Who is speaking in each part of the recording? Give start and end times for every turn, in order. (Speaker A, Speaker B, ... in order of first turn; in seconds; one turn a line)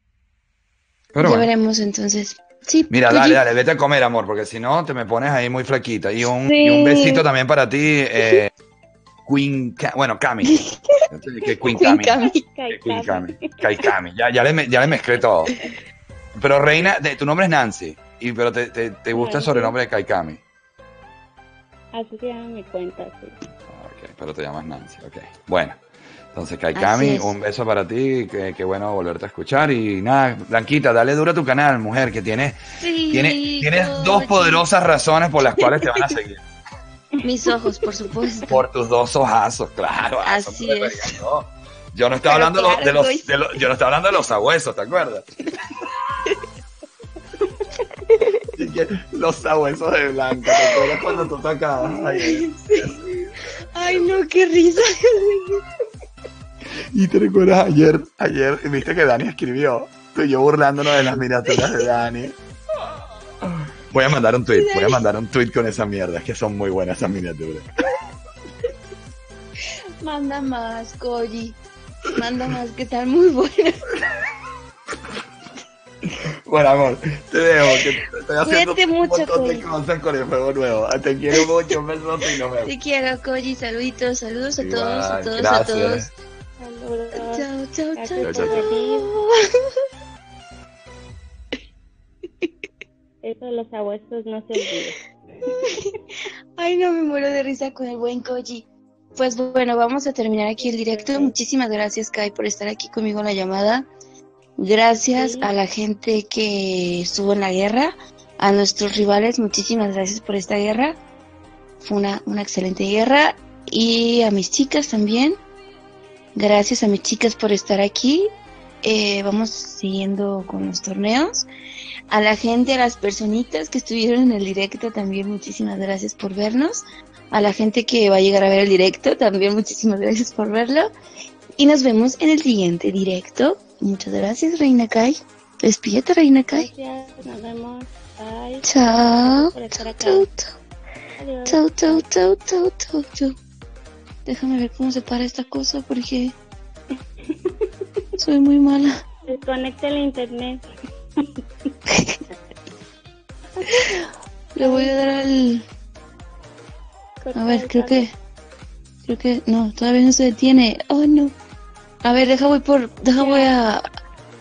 Speaker A: 1.1-1.5
Speaker B: 1.2-3.5
Speaker A: 2.9-8.5
Speaker B: 6.5-7.2
Speaker A: 9.3-10.6
Speaker B: 10.4-11.0
Speaker A: 11.1-12.2
Speaker B: 11.6-12.4
Speaker C: 12.3-13.3
Speaker A: 12.7-15.5
Speaker A: 16.4-20.4
Speaker C: 19.1-19.7
Speaker C: 21.9-23.4
Speaker A: 23.7-36.4
Speaker B: 26.7-27.4
Speaker B: 32.8-34.6
Speaker B: 35.8-36.0
Speaker B: 37.2-38.6
Speaker A: 38.5-45.3
Speaker B: 40.2-41.2
Speaker B: 42.3-43.6
Speaker B: 48.1-48.5
Speaker A: 48.6-53.3
Speaker B: 50.4-51.3
Speaker B: 51.8-53.0
Speaker B: 53.7-55.6
Speaker A: 56.9-62.4
Speaker B: 61.0-61.9
Speaker A: 63.4-67.7
Speaker B: 64.5-65.0
Speaker B: 70.0-71.6
Speaker B: 72.1-73.8
Speaker A: 76.1-82.7
Speaker B: 77.7-79.7
Speaker B: 81.3-81.7
Speaker B: 82.6-86.1
Speaker A: 84.6-86.1
Speaker C: 86.6-89.1
Speaker B: 87.1-89.3
Speaker A: 88.2-88.6
Speaker C: 93.2-95.6
Speaker B: 96.6-103.9
Speaker C: 100.6-101.3
Speaker B: 104.6-111.0
Speaker C: 105.2-105.5
Speaker B: 111.8-115.4
Speaker B: 116.3-121.5
Speaker B: 122.1-130.9
Speaker B: 131.6-136.7
Speaker C: 136.5-140.3
Speaker B: 138.6-140.6
Speaker C: 141.2-142.1
Speaker B: 141.5-143.4
Speaker B: 144.3-146.4
Speaker C: 147.3-147.7
Speaker B: 148.2-149.0
Speaker C: 149.3-150.6
Speaker B: 151.9-152.2
Speaker C: 153.6-154.1
Speaker B: 154.6-155.7
Speaker C: 154.6-154.9
Speaker C: 157.2-158.1
Speaker B: 157.3-158.2
Speaker B: 159.0-161.3
Speaker B: 162.0-163.8
Speaker C: 163.2-163.5